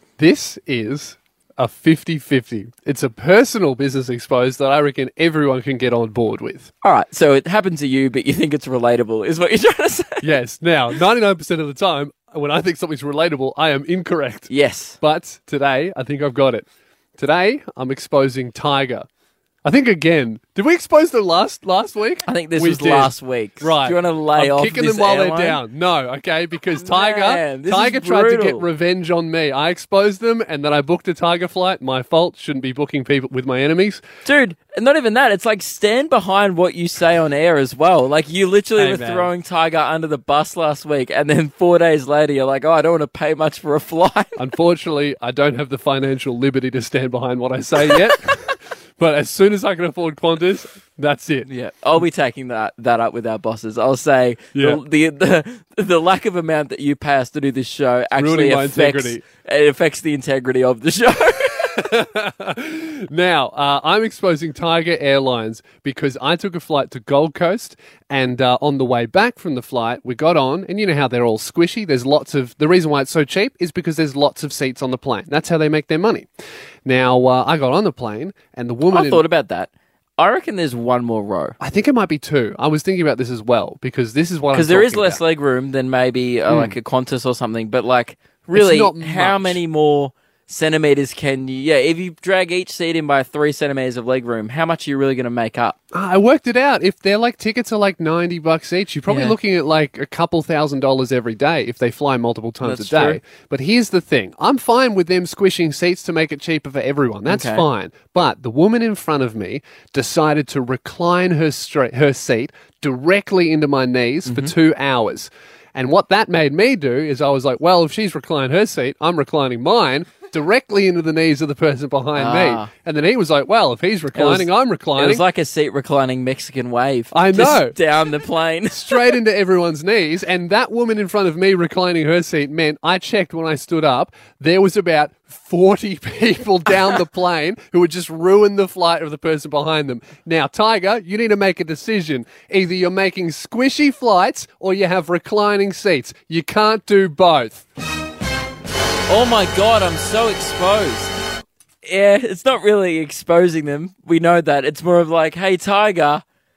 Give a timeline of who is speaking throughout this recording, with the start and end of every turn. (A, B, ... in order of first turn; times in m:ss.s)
0:00.2-0:06.7 A
0:06.8-0:10.3 B
0:10.2-0:14.5 A
0:14.5-0:15.0 B
0:15.0-0:19.1 A
0:19.6-0:34.0 A
0:22.3-0:25.6 B
0:26.8-0:28.6 B
0:34.2-0:44.4 B
0:38.8-0:39.3 A
0:44.4-0:51.5 A
0:51.4-1:01.9 B
0:54.5-0:54.8 A
0:58.2-0:59.2 A
1:01.7-1:16.3 A
1:16.9-1:19.2 A
1:18.9-1:21.6 B
1:21.6-1:25.2 A
1:24.5-1:35.8 B
1:26.5-1:26.8 A
1:28.5-1:29.6 A
1:35.9-2:05.2 A
1:39.1-1:39.4 B
1:42.6-1:43.2 B
1:47.3-1:47.7 B
1:54.3-1:54.5 B
2:02.2-2:02.7 B
2:04.2-2:09.2 B
2:07.1-2:07.8 A
2:08.7-2:27.7 A
2:29.1-2:31.2 B
2:31.8-2:36.2 B